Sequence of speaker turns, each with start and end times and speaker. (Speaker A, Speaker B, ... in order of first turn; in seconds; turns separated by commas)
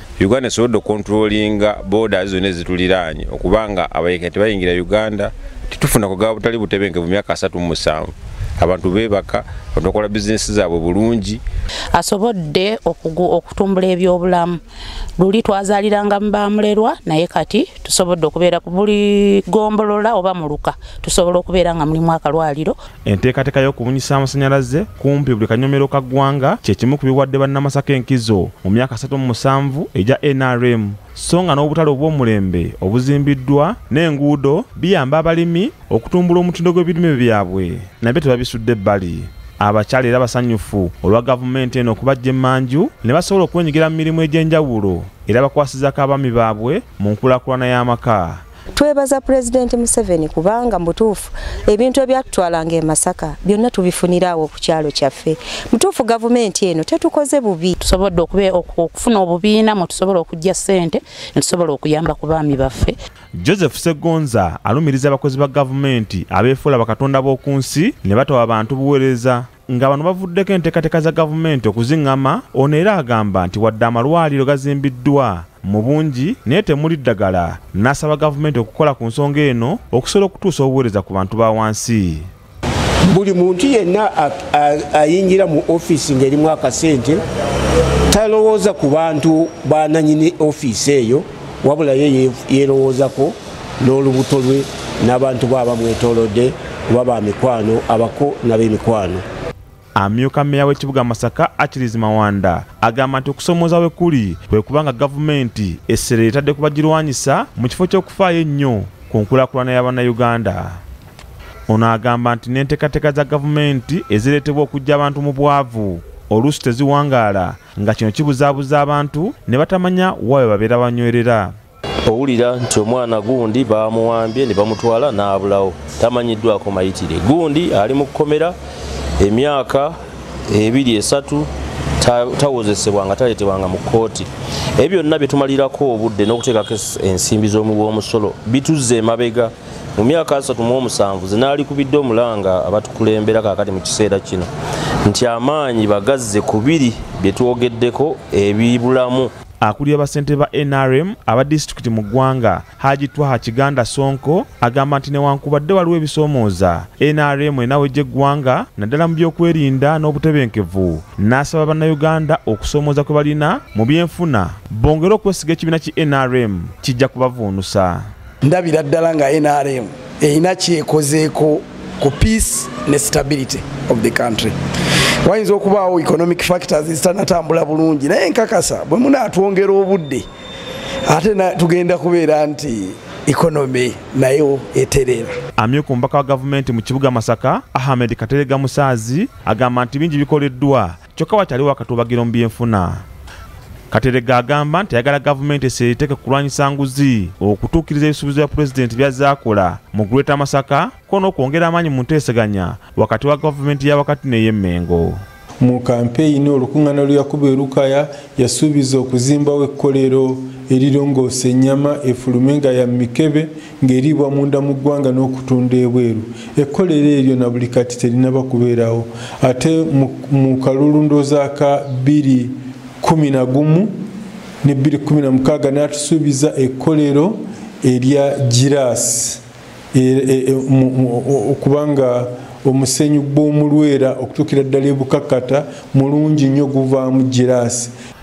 Speaker A: 0.2-11.4, Speaker B: 11.9-14.6, Speaker B: 15.2-22.8, Speaker C: 23.1-48.4, Speaker D: 48.8-57.8, Speaker B: 57.8-63.0, Speaker C: 63.4-82.3, Speaker E: 83.1-87.2, Speaker E: 88.1-99.2, Speaker C: 100.0-110.8, Speaker C: 111.7-121.5, Speaker F: 122.1-128.6, Speaker F: 129.2-129.9, Speaker F: 130.5-131.5, Speaker F: 132.0-144.5, Speaker F: 145.1-149.3, Speaker C: 149.6-168.1, Speaker G: 168.4-174.6, Speaker G: 175.2-180.2, Speaker G: 181.1-185.3, Speaker C: 185.6-193.0, Speaker C: 193.9-205.2, Speaker H: 205.6-223.9, Speaker H: 224.6-229.4, Speaker H: 229.9-237.9